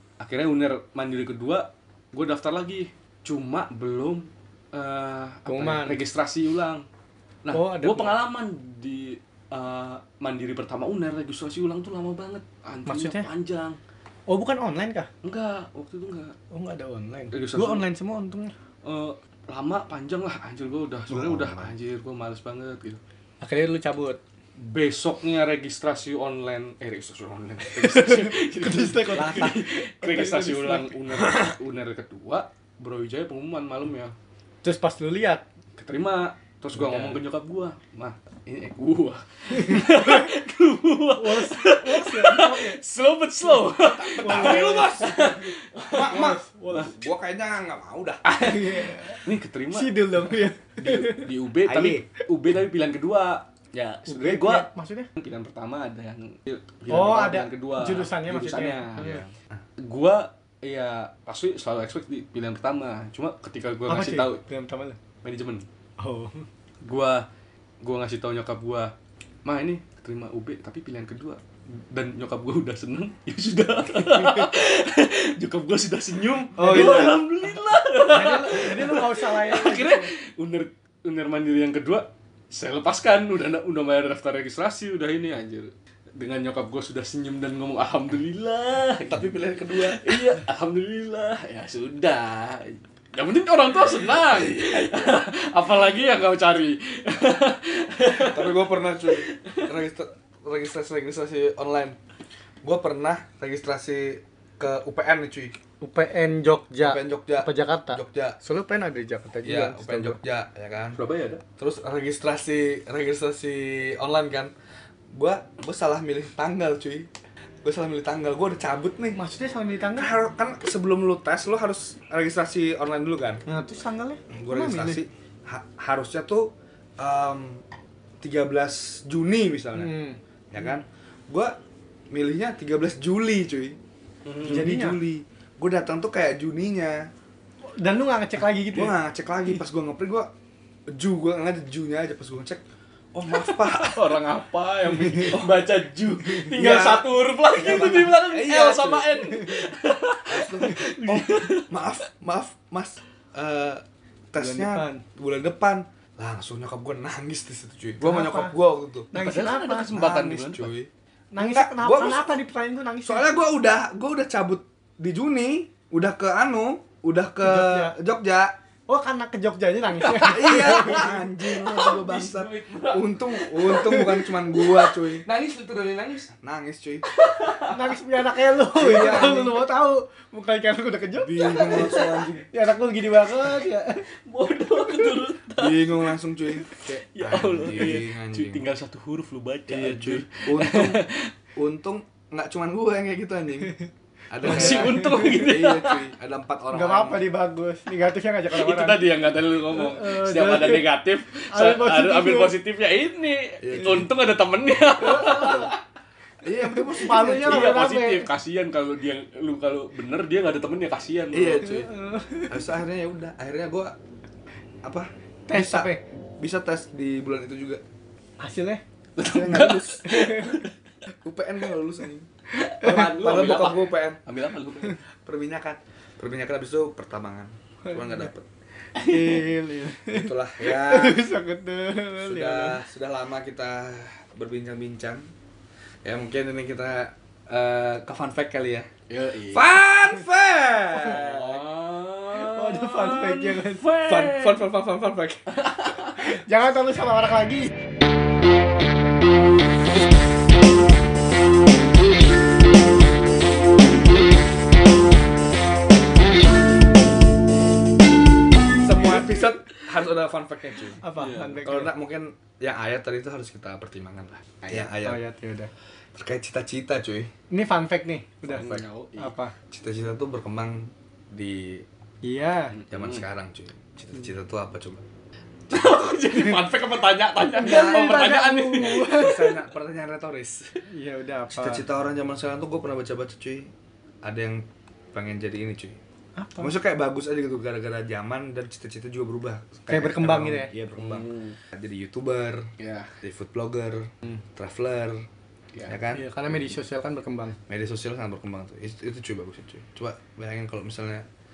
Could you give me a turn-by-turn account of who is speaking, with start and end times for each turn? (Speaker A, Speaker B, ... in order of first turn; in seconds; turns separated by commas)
Speaker A: 0.2-6.8, Speaker B: 5.5-6.0, Speaker A: 7.4-13.8, Speaker B: 7.5-8.2, Speaker B: 12.9-13.3, Speaker B: 14.3-15.1, Speaker A: 15.2-16.4, Speaker B: 16.5-18.5, Speaker A: 17.3-17.9, Speaker A: 18.8-23.0, Speaker C: 21.1-21.7, Speaker B: 23.4-24.2, Speaker A: 24.6-34.1, Speaker B: 27.7-31.4, Speaker C: 29.2-29.5, Speaker B: 34.6-35.4, Speaker A: 35.8-47.0, Speaker B: 36.8-37.2, Speaker B: 39.6-40.3, Speaker B: 41.2-42.8, Speaker B: 43.7-45.4, Speaker C: 44.0-48.5, Speaker B: 45.9-46.9, Speaker B: 48.3-51.3, Speaker A: 48.4-59.2, Speaker C: 51.7-52.1, Speaker B: 54.1-55.1, Speaker B: 56.9-59.2, Speaker C: 58.9-59.3, Speaker A: 59.8-64.4, Speaker B: 63.9-65.0, Speaker A: 65.2-65.7, Speaker B: 66.0-66.5, Speaker A: 66.8-67.3, Speaker A: 67.8-68.9, Speaker A: 69.5-99.7, Speaker B: 76.6-77.2, Speaker C: 76.6-77.2, Speaker B: 78.0-80.1, Speaker C: 89.1-90.3, Speaker C: 98.1-102.0, Speaker C: 102.6-105.6, Speaker B: 105.8-110.2, Speaker C: 106.8-108.4, Speaker C: 109.4-111.0, Speaker A: 111.0-111.4, Speaker C: 111.6-114.5, Speaker C: 115.1-117.1, Speaker C: 117.6-119.2, Speaker B: 119.1-120.1, Speaker C: 120.0-123.4, Speaker B: 123.5-125.0, Speaker C: 124.3-127.6, Speaker C: 128.2-129.9, Speaker B: 129.8-130.2, Speaker C: 130.5-131.6, Speaker C: 132.1-133.8, Speaker A: 134.3-134.7, Speaker B: 134.4-135.0, Speaker C: 134.4-137.1, Speaker B: 137.7-139.0, Speaker C: 138.6-140.3, Speaker C: 140.9-142.6, Speaker C: 143.1-144.2, Speaker A: 143.3-151.8, Speaker C: 145.3-145.6, Speaker C: 146.5-149.3, Speaker C: 150.3-159.1, Speaker B: 154.4-155.0, Speaker B: 158.0-158.6, Speaker B: 159.1-159.9, Speaker A: 159.2-160.7, Speaker C: 159.9-162.4, Speaker B: 161.3-163.3, Speaker C: 163.0-168.5, Speaker B: 167.4-167.9, Speaker B: 168.9-171.2, Speaker C: 170.1-175.3, Speaker A: 170.4-176.3, Speaker C: 176.3-177.1, Speaker A: 177.1-178.0, Speaker B: 177.7-184.1, Speaker C: 178.8-179.6, Speaker C: 181.2-182.5, Speaker A: 181.5-182.3, Speaker A: 184.1-186.1, Speaker B: 184.8-185.2, Speaker C: 185.5-188.6, Speaker A: 186.6-191.3, Speaker C: 189.7-191.0, Speaker C: 191.6-193.8, Speaker C: 194.3-197.3, Speaker A: 194.4-196.1, Speaker B: 194.4-195.6, Speaker B: 196.7-199.1, Speaker A: 198.5-205.8, Speaker B: 199.7-200.9, Speaker B: 201.5-202.5, Speaker C: 203.6-204.1, Speaker C: 205.0-205.7, Speaker B: 205.0-205.7, Speaker C: 206.4-207.8, Speaker B: 206.6-208.3, Speaker A: 207.1-211.8, Speaker C: 211.3-211.9, Speaker B: 211.6-212.7, Speaker C: 212.5-213.9, Speaker C: 214.8-217.8, Speaker B: 215.5-216.0, Speaker B: 218.4-218.8, Speaker A: 219.2-220.7, Speaker C: 219.2-220.1, Speaker B: 219.6-220.7, Speaker C: 221.2-222.3, Speaker A: 222.6-225.0, Speaker B: 222.6-223.1, Speaker C: 222.8-224.2, Speaker C: 225.2-228.5, Speaker B: 228.9-232.8, Speaker A: 229.0-229.4, Speaker C: 230.1-231.2, Speaker C: 232.2-235.3, Speaker C: 236.0-238.9, Speaker A: 239.1-239.9, Speaker C: 239.5-241.6, Speaker A: 241.0-244.8, Speaker B: 242.3-243.9, Speaker C: 244.1-245.5, Speaker A: 245.5-246.3, Speaker B: 246.2-247.8, Speaker C: 258.8-261.0, Speaker B: 261.0-261.9, Speaker A: 261.2-261.6, Speaker C: 261.6-265.2, Speaker A: 264.6-264.9, Speaker B: 265.0-265.7, Speaker C: 266.1-267.3, Speaker B: 267.5-269.5, Speaker A: 268.5-269.3, Speaker C: 268.5-268.8, Speaker C: 269.7-271.9, Speaker B: 272.2-272.8, Speaker A: 272.8-273.2, Speaker C: 272.9-275.0, Speaker A: 275.7-279.3, Speaker B: 277.6-279.6, Speaker C: 277.6-280.8, Speaker B: 280.9-281.9, Speaker C: 281.5-283.7, Speaker C: 284.2-286.0, Speaker B: 286.4-286.7, Speaker C: 286.6-295.3, Speaker B: 289.9-290.7, Speaker A: 291.0-291.6, Speaker A: 292.8-293.2, Speaker C: 295.9-296.2, Speaker B: 296.1-297.6, Speaker C: 297.7-301.2